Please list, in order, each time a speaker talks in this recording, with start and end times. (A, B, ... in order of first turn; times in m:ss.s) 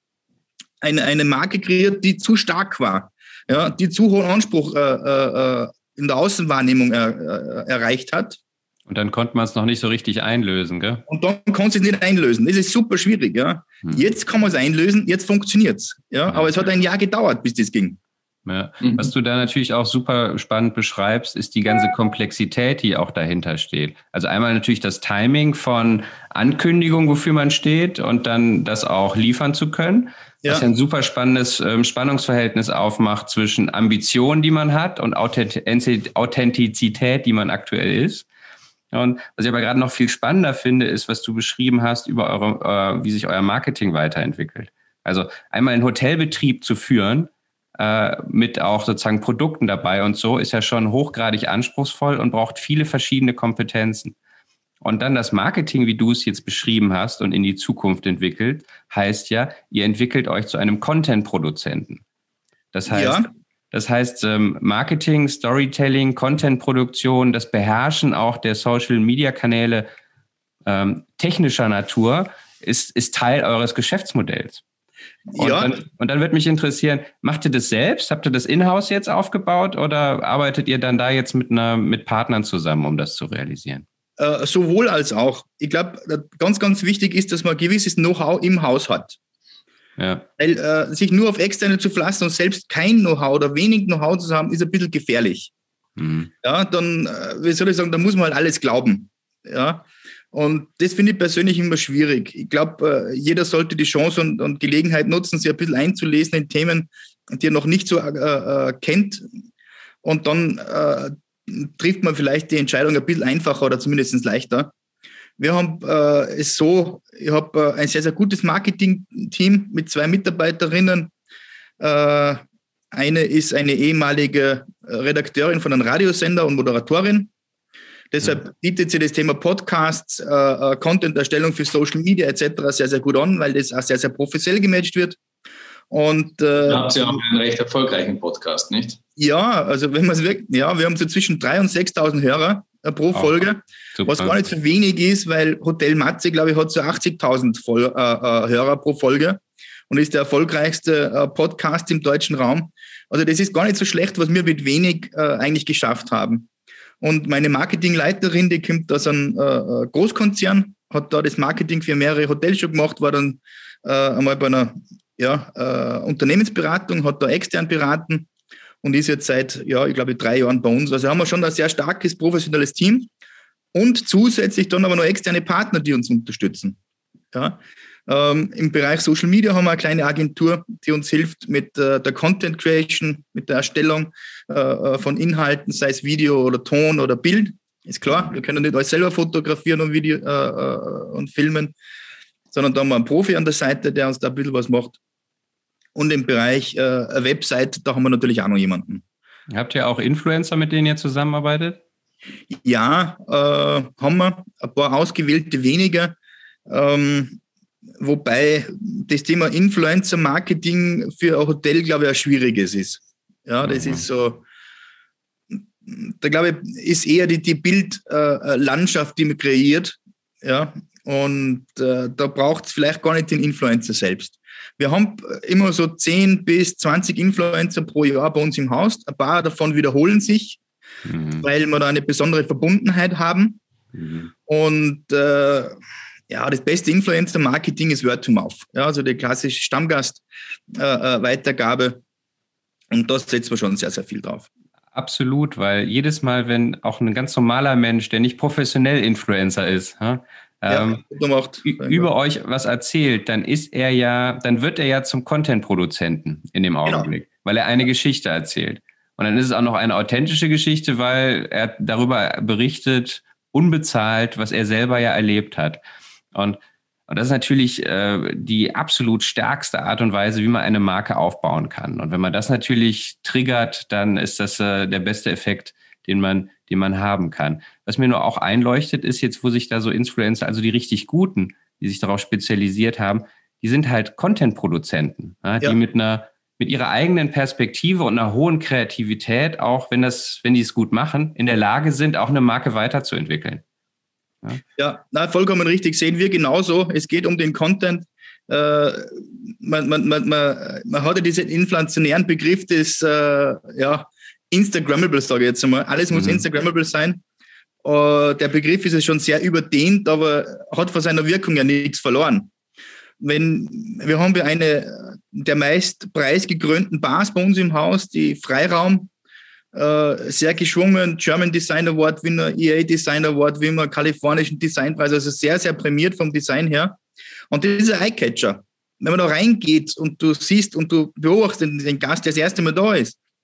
0:00.8-0:08.4 A
0:08.9-0:11.0 B
0:11.1-0:18.0 A
0:18.4-0:38.2 B
0:18.8-0:19.1 C
0:38.9-0:54.1 B
0:54.8-1:02.0 B
1:02.7-1:09.9 B
1:02.9-1:03.3 A
1:10.6-1:14.6 B
1:15.3-1:15.8 A
1:15.3-1:23.8 B
1:24.2-1:29.2 A
1:30.0-1:30.2 B
1:30.4-1:35.5 A
1:36.0-1:36.3 B
1:36.4-1:49.3 A
1:50.0-1:54.7 A
1:55.4-2:01.1 A
2:01.8-2:02.4 A
2:02.9-2:07.3 A
2:08.1-2:15.2 A
2:15.9-2:17.2 A
2:16.6-2:19.0 C
2:19.2-2:36.5 A
2:23.9-2:24.4 B
2:37.0-2:48.3 A
2:48.8-2:53.1 A
2:53.7-2:56.8 A
2:57.3-3:11.7 A
3:12.5-3:15.0 A
3:15.9-3:19.0 A
3:19.5-3:21.8 B
3:22.5-3:26.1 A
3:26.7-3:27.4 A
3:28.0-3:34.4 A
3:33.6-3:34.0 B
3:35.8-3:50.6 A
3:51.0-3:51.4 B
3:51.4-3:53.6 A
3:53.9-3:54.3 B
3:54.5-3:55.7 A
3:56.3-4:02.0 A
4:02.9-4:04.5 A
4:04.9-4:11.0 B
4:10.7-4:12.1 A
4:11.6-4:25.8 B
4:26.3-4:53.6 B
4:54.8-5:07.2 A
5:06.1-5:06.4 B
5:07.8-5:12.5 A
5:13.2-5:19.1 A
5:19.7-5:27.0 A
5:27.5-5:33.2 A